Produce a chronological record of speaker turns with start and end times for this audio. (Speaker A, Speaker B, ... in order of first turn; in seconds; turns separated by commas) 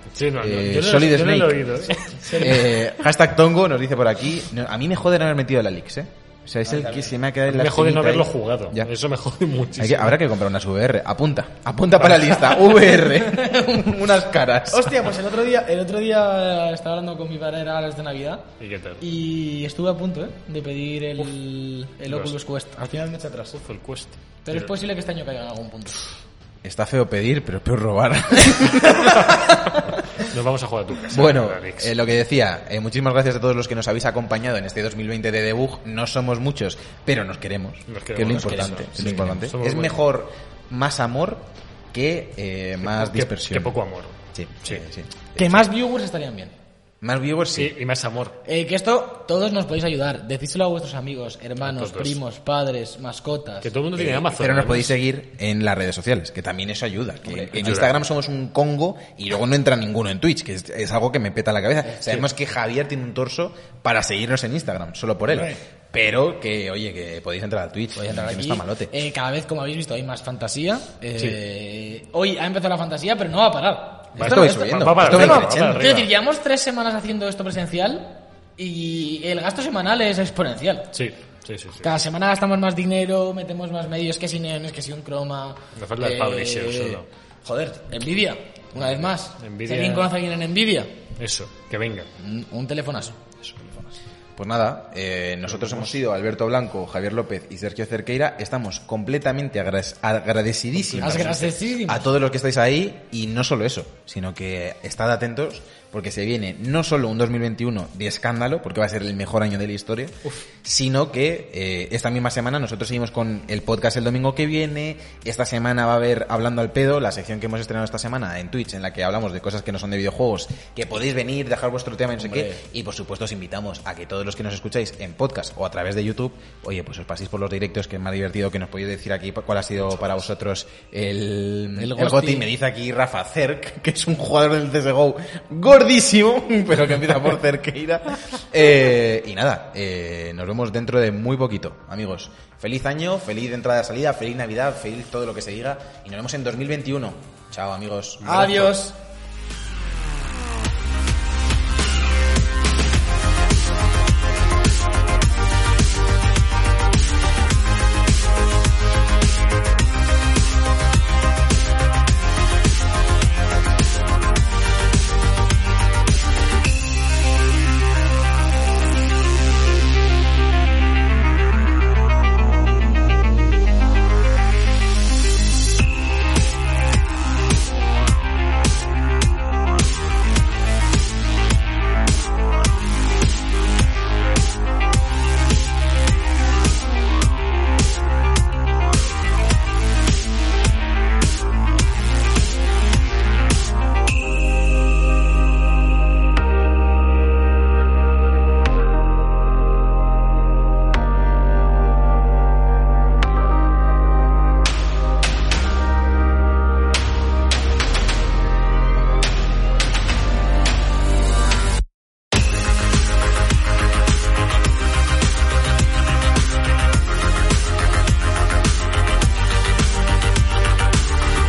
Speaker A: 0.1-2.9, Speaker B: 0.4-8.9, Speaker C: 2.2-2.6, Speaker A: 7.5-10.2, Speaker B: 9.8-15.1, Speaker C: 12.6-13.9, Speaker C: 14.7-18.5, Speaker A: 18.6-19.0, Speaker C: 19.0-23.6, Speaker A: 22.1-22.4, Speaker A: 23.5-24.7, Speaker C: 24.4-26.1, Speaker B: 26.6-29.8, Speaker A: 30.2-32.0, Speaker B: 31.1-43.8, Speaker A: 37.9-40.0, Speaker A: 42.8-44.8, Speaker B: 44.3-45.6, Speaker C: 45.4-46.5, Speaker B: 47.0-47.7, Speaker A: 47.5-48.4, Speaker C: 48.5-53.7, Speaker A: 51.6-52.2, Speaker A: 53.6-55.0, Speaker B: 54.0-68.9, Speaker A: 57.4-58.0, Speaker C: 65.3-65.6, Speaker C: 68.0-80.9, Speaker B: 74.2-76.1, Speaker A: 74.2-76.0, Speaker A: 80.9-81.9, Speaker C: 81.8-91.0, Speaker A: 85.8-87.1, Speaker A: 88.8-90.1, Speaker A: 91.2-92.1, Speaker C: 92.2-93.2, Speaker B: 94.4-148.7, Speaker A: 100.8-101.5, Speaker C: 101.0-102.1, Speaker C: 122.2-122.6, Speaker C: 131.8-132.5, Speaker A: 148.2-148.6, Speaker C: 148.2-149.0